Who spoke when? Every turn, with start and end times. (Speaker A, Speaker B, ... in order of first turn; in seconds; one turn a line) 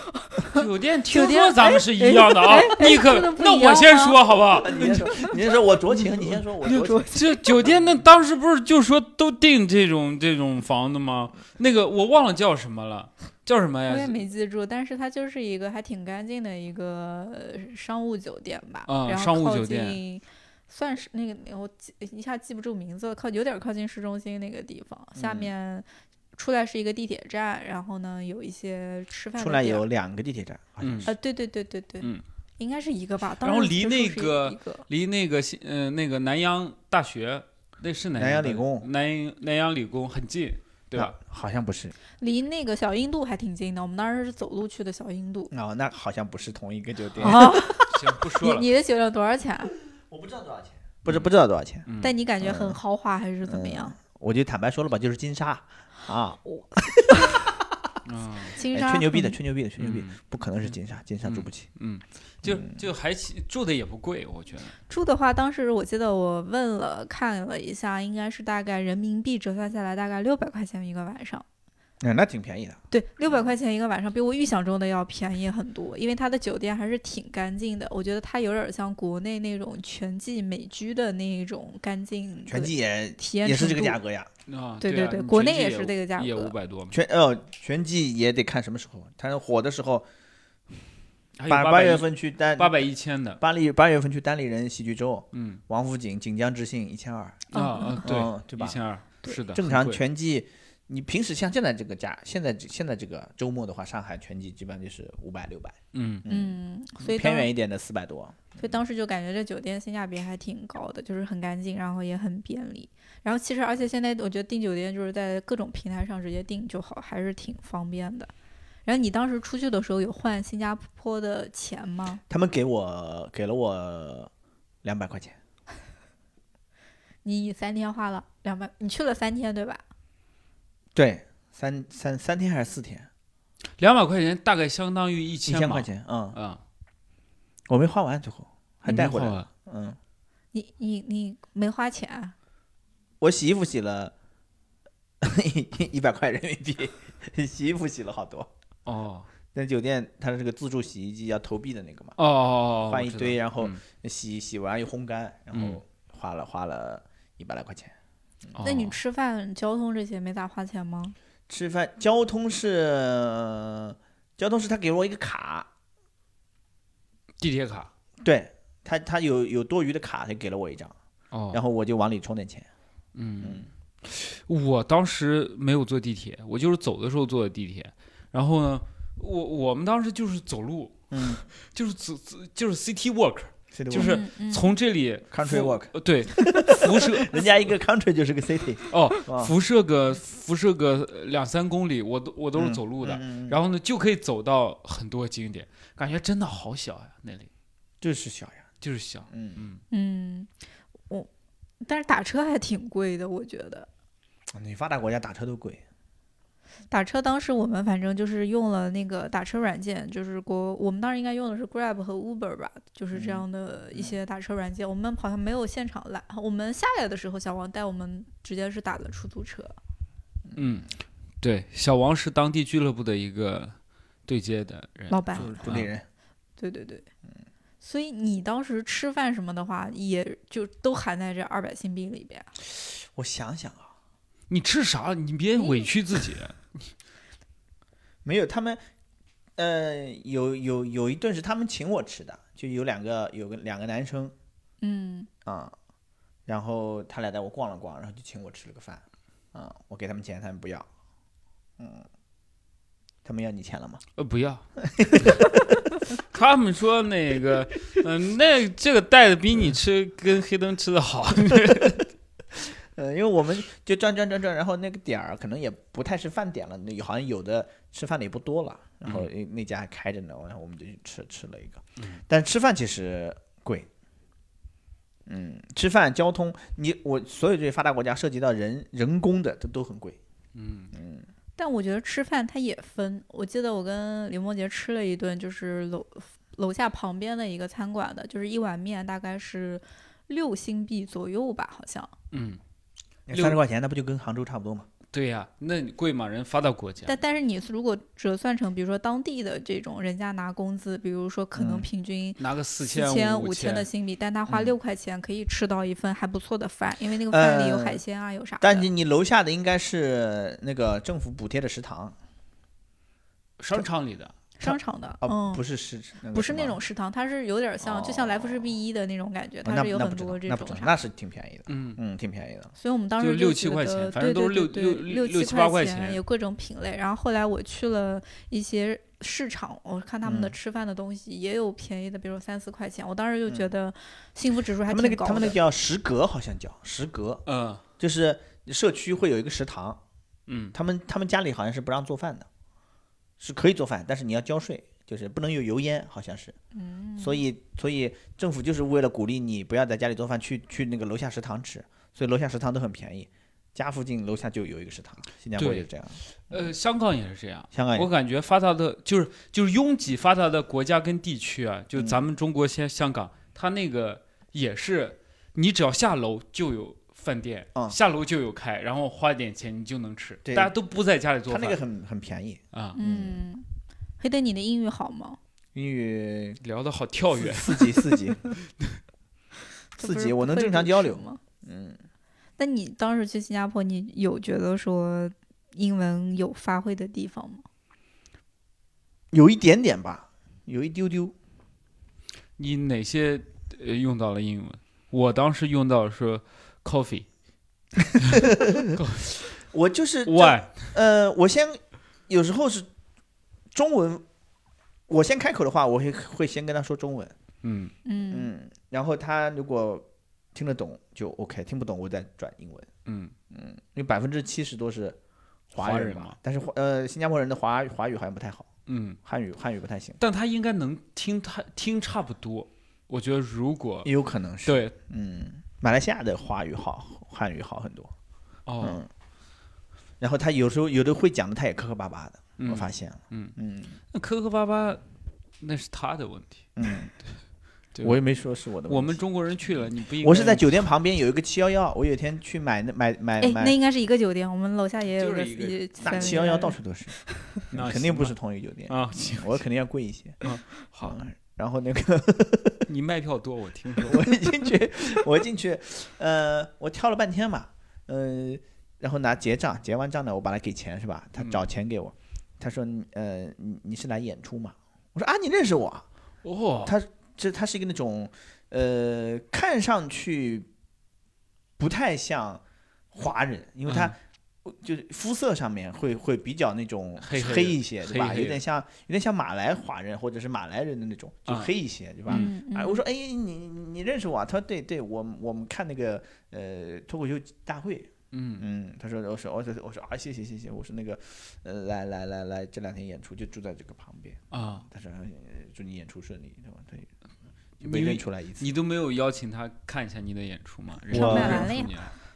Speaker A: 0.2-5.4
Speaker B: 0.5-5.0
Speaker C: 4.6-7.9
Speaker A: 6.6-7.3
Speaker B: 7.1-14.2
Speaker A: 13.9-29.9
Speaker B: 18.9-20.0
Speaker C: 25.2-25.5
Speaker C: 29.4-31.1
Speaker B: 30.8-31.1
Speaker A: 31.1-34.9
Speaker B: 33.4-41.1
Speaker C: 38.2-38.9
Speaker C: 40.9-42.0
Speaker A: 42.2-45.5
Speaker C: 45.5-47.8
Speaker B: 47.1-48.7
Speaker A: 47.2-49.7
Speaker C: 50.1-51.9
Speaker B: 51.9-52.1
Speaker A: 52.0-54.0
Speaker C: 52.4-52.8
Speaker C: 53.5-57.9
Speaker A: 56.5-57.4
Speaker B: 58.0-58.6
Speaker A: 58.6-59.4
Speaker C: 58.6-61.7
Speaker B: 59.8-64.8
Speaker C: 62.4-62.9
Speaker A: 64.9-71.5
Speaker C: 72.0-72.8
Speaker A: 72.9-84.0
Speaker C: 82.5-84.3
Speaker B: 84.5-87.0
Speaker A: 84.8-86.5
Speaker C: 86.9-90.1
Speaker B: 91.4-93.4
Speaker C: 91.5-92.7
Speaker C: 93.4-97.5
Speaker B: 95.3-95.6
Speaker B: 97.5-100.0
Speaker A: 97.5-98.1
Speaker C: 98.0-98.8
Speaker C: 99.5-108.8
Speaker B: 105.9-106.2
Speaker A: 106.3-107.5
Speaker A: 108.6-118.3
Speaker A: 118.9-122.2
Speaker C: 122.3-124.3
Speaker C: 124.8-125.4
Speaker A: 127.2-129.8
Speaker C: 130.9-133.1
Speaker B: 133.8-136.6
Speaker C: 135.4-136.4
Speaker C: 137.7-140.0
Speaker B: 138.9-139.5
Speaker A: 140.5-142.3
Speaker C: 143.2-144.1
Speaker C: 145.2-148.5
Speaker B: 148.9-149.3
Speaker C: 149.5-152.2
Speaker B: 152.2-153.8
Speaker C: 152.9-157.9
Speaker B: 155.5-155.8
Speaker B: 158.5-159.0
Speaker A: 158.6-161.2
Speaker C: 161.5-165.7
Speaker B: 167.4-167.9
Speaker C: 168.2-171.0
Speaker B: 171.3-171.6
Speaker C: 171.5-172.7
Speaker B: 173.2-187.4
Speaker C: 181.1-181.4
Speaker C: 183.7-184.2
Speaker A: 184.0-184.7
Speaker C: 185.3-189.5
Speaker B: 188.9-197.5
Speaker C: 192.6-193.6
Speaker C: 198.0-198.7
Speaker B: 198.8-199.8
Speaker C: 199.3-199.7
Speaker A: 199.9-200.5
Speaker A: 201.8-203.9
Speaker C: 204.5-205.8
Speaker A: 206.9-219.8
Speaker C: 213.1-213.4
Speaker C: 220.5-220.8
Speaker B: 220.6-220.9
Speaker B: 221.4-223.8
Speaker B: 224.3-225.9
Speaker A: 225.1-225.6
Speaker C: 225.3-226.1
Speaker A: 226.6-227.1
Speaker A: 227.8-232.5
Speaker C: 232.8-233.9
Speaker B: 234.5-236.7
Speaker A: 235.6-235.9
Speaker C: 238.2-238.8
Speaker C: 239.6-244.3
Speaker A: 244.8-245.3
Speaker C: 245.4-245.7
Speaker C: 246.5-249.0
Speaker C: 249.5-250.9
Speaker C: 251.8-252.1
Speaker C: 253.2-254.0
Speaker B: 254.2-254.6
Speaker C: 254.8-255.6
Speaker B: 256.3-262.0
Speaker C: 262.6-273.9
Speaker C: 275.3-280.2
Speaker B: 280.6-280.9
Speaker C: 280.9-281.3
Speaker A: 281.6-292.1
Speaker B: 292.3-292.6
Speaker C: 293.3-294.9
Speaker B: 293.3-293.6
Speaker B: 295.1-297.2
Speaker A: 297.1-308.9
Speaker C: 301.6-301.9
Speaker B: 302.4-303.9
Speaker C: 304.5-304.7
Speaker C: 307.3-308.0
Speaker C: 308.6-312.1
Speaker B: 313.6-314.3
Speaker A: 314.6-315.6
Speaker C: 314.6-316.8
Speaker A: 316.3-321.0
Speaker C: 317.8-318.8
Speaker C: 319.6-322.7
Speaker B: 321.7-322.0
Speaker A: 322.8-335.6
Speaker B: 323.2-326.2
Speaker C: 330.2-330.6
Speaker C: 334.9-337.4
Speaker B: 337.5-337.8
Speaker C: 338.0-340.0
Speaker B: 340.5-340.7
Speaker C: 340.7-342.5
Speaker C: 343.4-346.6
Speaker A: 346.8-347.4
Speaker C: 347.2-356.7
Speaker B: 355.6-355.9
Speaker B: 356.5-371.8
Speaker C: 357.7-358.1
Speaker C: 370.5-370.7
Speaker C: 371.5-373.4
Speaker A: 372.9-373.7
Speaker A: 374.2-375.4
Speaker C: 375.8-376.6
Speaker B: 376.6-378.0
Speaker C: 377.4-378.4
Speaker A: 380.0-381.4
Speaker C: 380.0-382.0
Speaker A: 382.6-387.6
Speaker C: 389.3-391.4
Speaker B: 392.6-397.3
Speaker B: 398.1-399.6
Speaker C: 398.4-398.9
Speaker C: 399.7-402.9
Speaker B: 400.2-400.9
Speaker C: 403.7-404.2
Speaker C: 405.1-407.4
Speaker B: 407.6-407.9
Speaker A: 408.1-408.5
Speaker C: 408.3-412.9
Speaker B: 413.1-413.3
Speaker C: 413.5-415.2
Speaker C: 415.7-418.7
Speaker B: 415.8-416.4
Speaker B: 418.9-419.2
Speaker C: 419.2-420.2
Speaker B: 420.2-424.1
Speaker C: 424.1-428.1
Speaker B: 424.7-424.9
Speaker B: 428.7-429.0
Speaker C: 428.8-429.1
Speaker C: 430.2-433.9
Speaker B: 432.6-433.6
Speaker B: 434.1-435.0
Speaker B: 435.6-436.7
Speaker C: 436.8-437.1
Speaker C: 438.0-439.2
Speaker B: 438.9-440.8
Speaker C: 440.2-443.8
Speaker A: 443.4-446.8
Speaker B: 445.2-446.5
Speaker C: 446.0-447.1
Speaker B: 447.7-448.4
Speaker C: 447.7-450.4
Speaker B: 448.9-449.6
Speaker B: 450.4-451.2
Speaker C: 451.0-452.9
Speaker B: 452.9-454.3
Speaker C: 454.0-466.1
Speaker B: 461.4-461.6
Speaker B: 466.4-466.9
Speaker C: 466.8-470.7
Speaker C: 471.8-497.1
Speaker B: 473.9-474.1
Speaker B: 477.2-478.6
Speaker B: 481.5-481.7
Speaker A: 482.3-483.0
Speaker B: 488.3-488.6
Speaker B: 494.5-494.9
Speaker C: 497.8-498.7
Speaker B: 497.8-502.1
Speaker C: 501.1-501.8
Speaker A: 501.1-502.0